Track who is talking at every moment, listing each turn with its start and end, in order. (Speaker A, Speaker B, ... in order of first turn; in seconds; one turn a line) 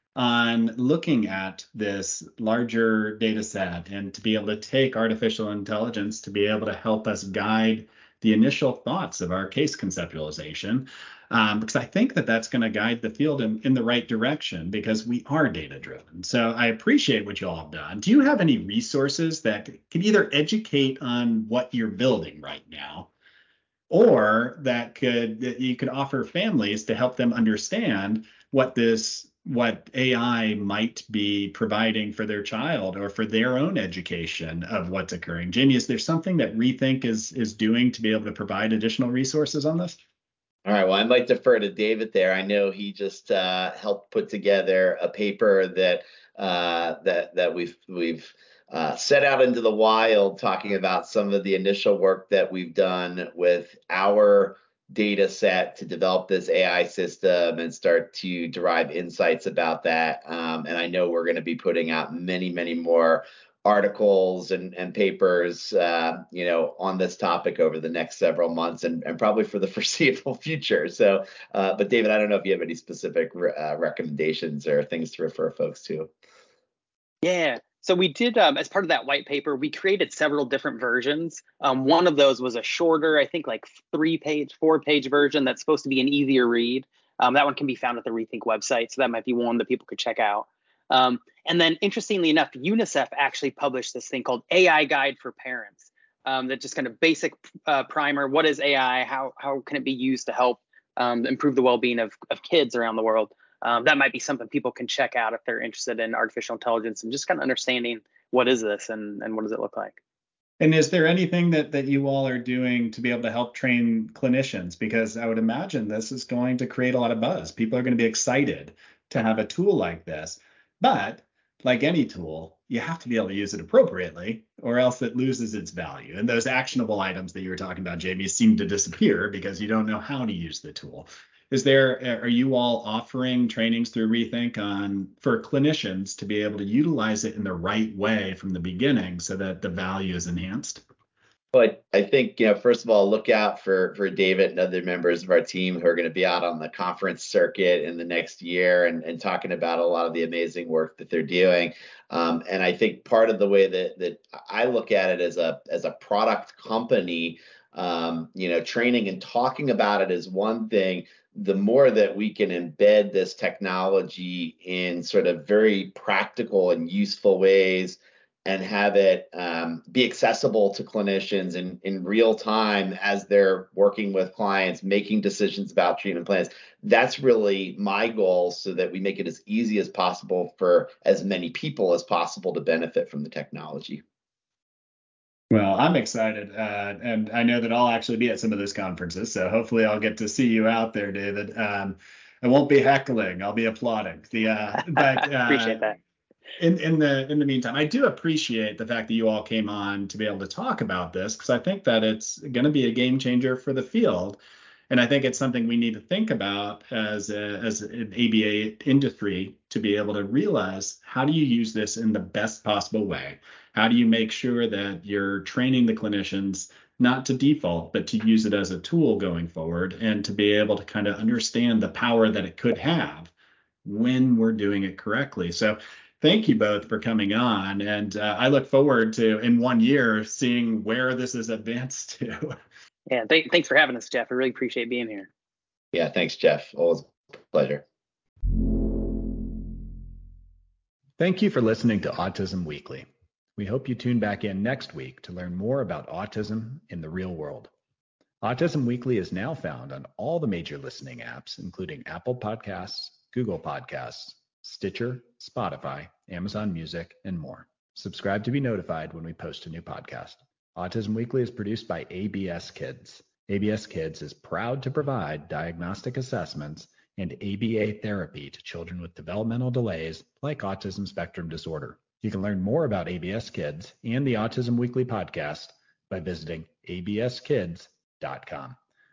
Speaker A: 0.1-23.1
Speaker A: 23.9-40.0
Speaker B: 40.6-76.1
Speaker C: 77.2-110.0
Speaker A: 110.6-140.8
Speaker B: 141.5-184.0
Speaker A: 185.5-196.0
Speaker C: 195.0-196.0
Speaker A: 196.6-204.4
Speaker A: 204.9-223.3
Speaker A: 223.8-232.6
Speaker C: 233.1-235.3
Speaker B: 235.9-237.8
Speaker A: 241.2-247.7
Speaker A: 248.4-278.8